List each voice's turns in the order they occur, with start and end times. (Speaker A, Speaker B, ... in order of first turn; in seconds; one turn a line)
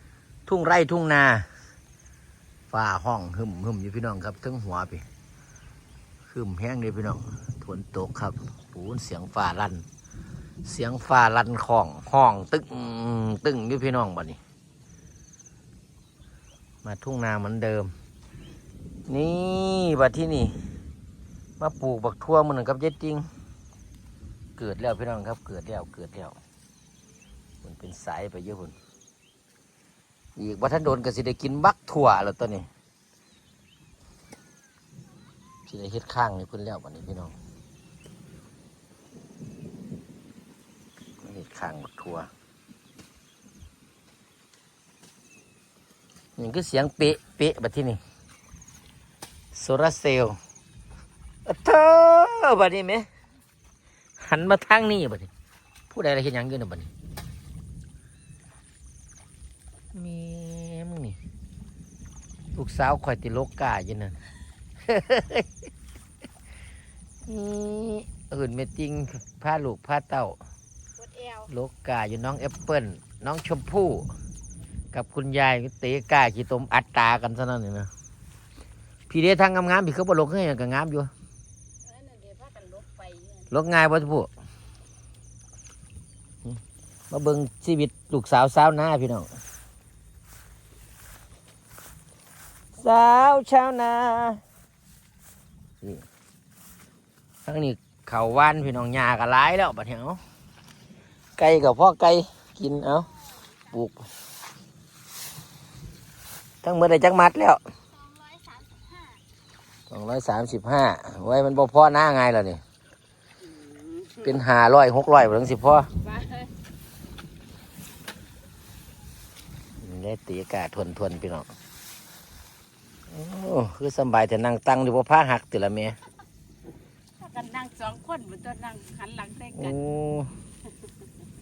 Speaker A: 0.5-1.5
Speaker A: 2.7-5.1
Speaker A: 6.3-9.8
Speaker A: 10.6-14.4
Speaker A: 16.8-17.9
Speaker A: 19.1-20.6
Speaker A: 21.6-23.3
Speaker A: 24.6-26.4
Speaker A: 27.6-28.8
Speaker A: 30.4-32.7
Speaker A: 35.7-37.4
Speaker A: 41.2-42.3
Speaker A: 46.4-48.0
Speaker A: 49.5-50.4
Speaker A: 51.5-53.1
Speaker A: 54.2-55.3
Speaker A: 55.9-56.9
Speaker A: 59.9-61.2
Speaker A: 62.5-64.2
Speaker A: 64.9-65.5
Speaker A: 67.3-70.4
Speaker B: 71.0-71.5
Speaker A: 71.5-74.1
Speaker A: 74.9-77.9
Speaker A: 79.1-81.1
Speaker B: 81.8-83.5
Speaker A: 83.5-84.3
Speaker A: 87.1-89.3
Speaker A: 92.8-94.4
Speaker A: 97.5-100.2
Speaker A: 101.4-103.1
Speaker A: 103.7-104.1
Speaker A: 106.6-107.6
Speaker A: 109.9-112.6
Speaker B: 113.4-114.3
Speaker A: 114.2-115.9
Speaker B: 116.0-116.5
Speaker A: 119.8-121.5
Speaker A: 123.1-126.0
Speaker B: 127.2-129.8
Speaker A: 129.6-130.3